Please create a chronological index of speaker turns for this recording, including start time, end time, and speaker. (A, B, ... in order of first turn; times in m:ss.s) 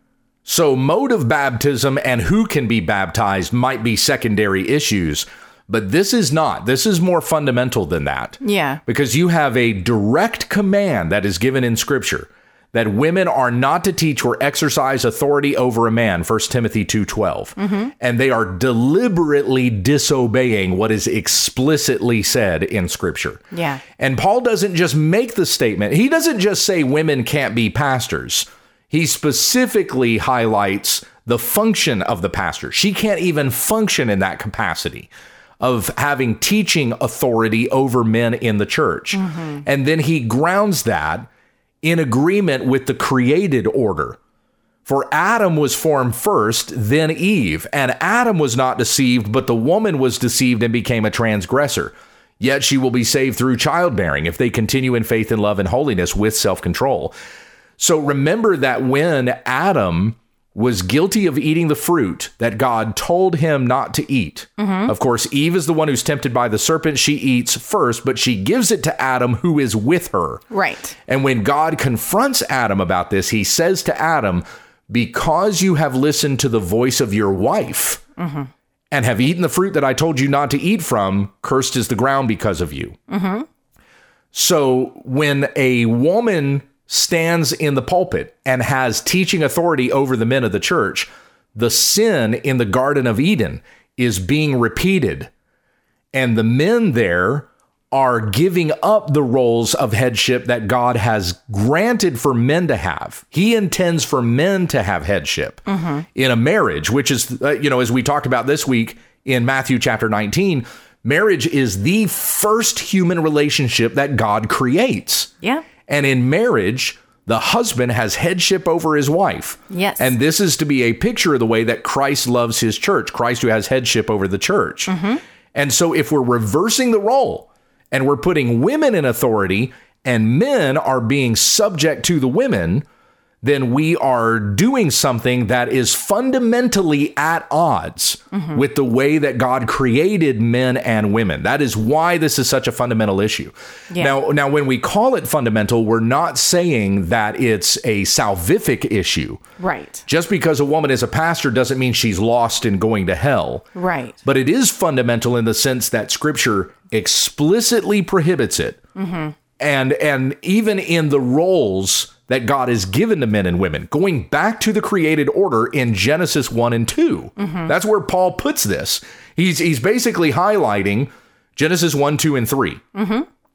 0:00.4-0:23.4 A
0:08.4-0:08.8 B
0:17.6-0:17.9 B
0:23.5-0:23.8 B
0:24.0-0:41.3 A
0:39.1-0:39.6 B
0:41.8-0:44.2 A
0:44.8-0:57.1 A
0:57.8-1:10.4 A
1:04.6-1:04.9 B
1:10.5-1:11.0 B
1:11.1-1:18.0 A
1:18.2-1:18.5 B
1:18.9-1:23.0 A
1:23.1-1:23.5 B
1:24.3-1:35.3 A
1:36.1-1:55.3 A
1:45.7-1:46.0 B
1:55.4-1:55.6 B
1:55.9-2:04.9 A
1:59.7-2:00.1 B
2:04.9-2:05.2 B
2:05.5-2:12.8 A
2:13.4-2:29.4 A
2:18.3-2:18.6 B
2:23.9-2:24.2 B
2:29.6-2:30.0 B
2:30.0-2:33.7 A
2:33.7-2:34.2 B
2:34.2-2:38.8 A
2:38.9-2:39.3 B
2:39.6-2:52.8 A
2:47.4-2:47.7 B
2:52.9-2:53.3 B